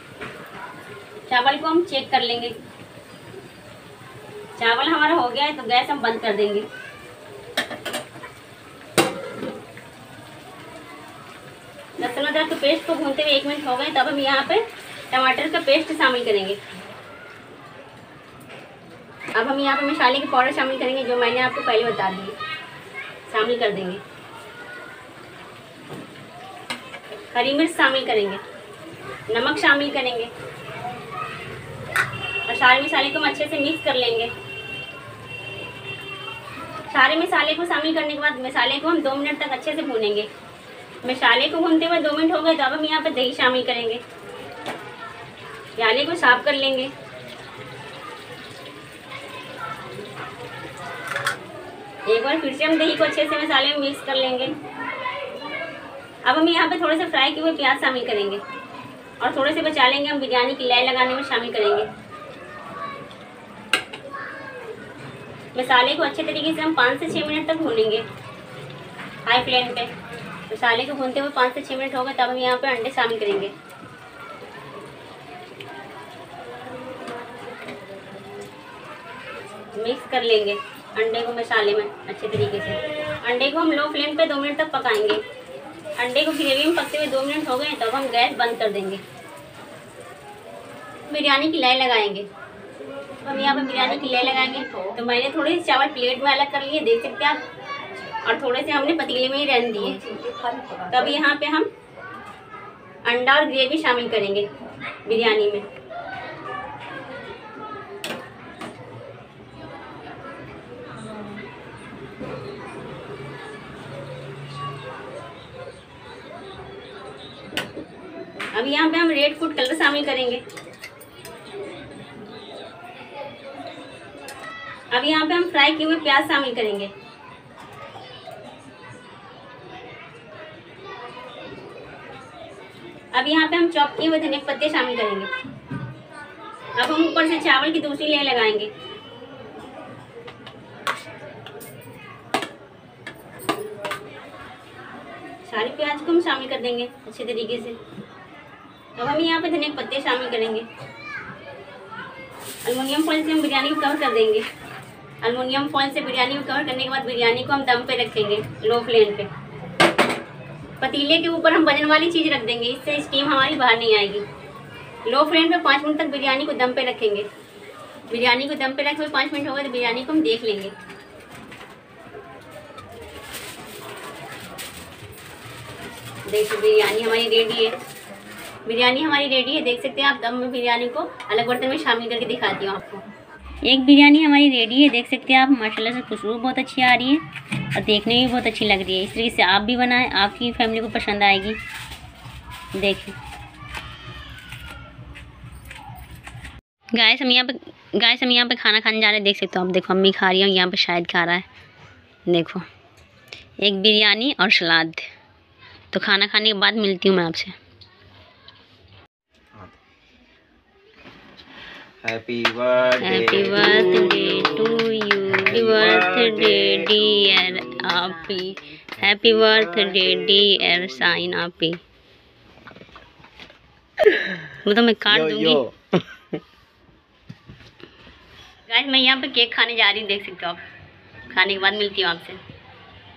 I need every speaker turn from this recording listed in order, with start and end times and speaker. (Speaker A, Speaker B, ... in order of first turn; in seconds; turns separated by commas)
Speaker A: 1.3-2.5, Speaker A: 4.6-6.7, Speaker A: 12.0-16.6, Speaker A: 19.4-22.3, Speaker A: 23.3-24.0, Speaker A: 27.3-28.4, Speaker A: 29.3-30.3, Speaker A: 32.5-34.3, Speaker A: 36.9-40.3, Speaker A: 41.0-44.0, Speaker A: 45.8-46.9, Speaker A: 52.1-54.5, Speaker A: 56.2-58.4, Speaker A: 59.2-61.9, Speaker A: 65.5-68.0, Speaker A: 69.2-69.9, Speaker A: 70.5-73.5, Speaker A: 79.8-85.2, Speaker A: 86.0-89.0, Speaker A: 91.1-92.3, Speaker A: 93.2-97.4, Speaker A: 98.2-100.1, Speaker B: 100.1-100.9, Speaker A: 100.9-101.7, Speaker A: 103.0-104.5, Speaker A: 105.0-105.7, Speaker A: 118.5-120.4, Speaker A: 124.9-126.9, Speaker A: 133.1-135.3, Speaker A: 136.8-138.7, Speaker A: 145.4-147.8, Speaker A: 148.9-150.7, Speaker A: 152.6-154.4, Speaker A: 155.2-159.3, Speaker A: 160.8-164.2, Speaker A: 165.1-167.3, Speaker A: 168.1-170.7, Speaker A: 176.2-177.8, Speaker A: 178.7-183.0, Speaker A: 183.7-187.2, Speaker A: 187.7-191.6, Speaker A: 192.8-193.2, Speaker A: 196.9-201.4, Speaker A: 202.3-202.6, Speaker A: 203.6-205.0, Speaker A: 205.9-207.5, Speaker B: 212.0-218.4, Speaker A: 213.0-221.8, Speaker B: 219.0-221.2, Speaker A: 224.5-225.6, Speaker B: 225.1-225.9, Speaker A: 228.7-230.6, Speaker A: 231.3-232.4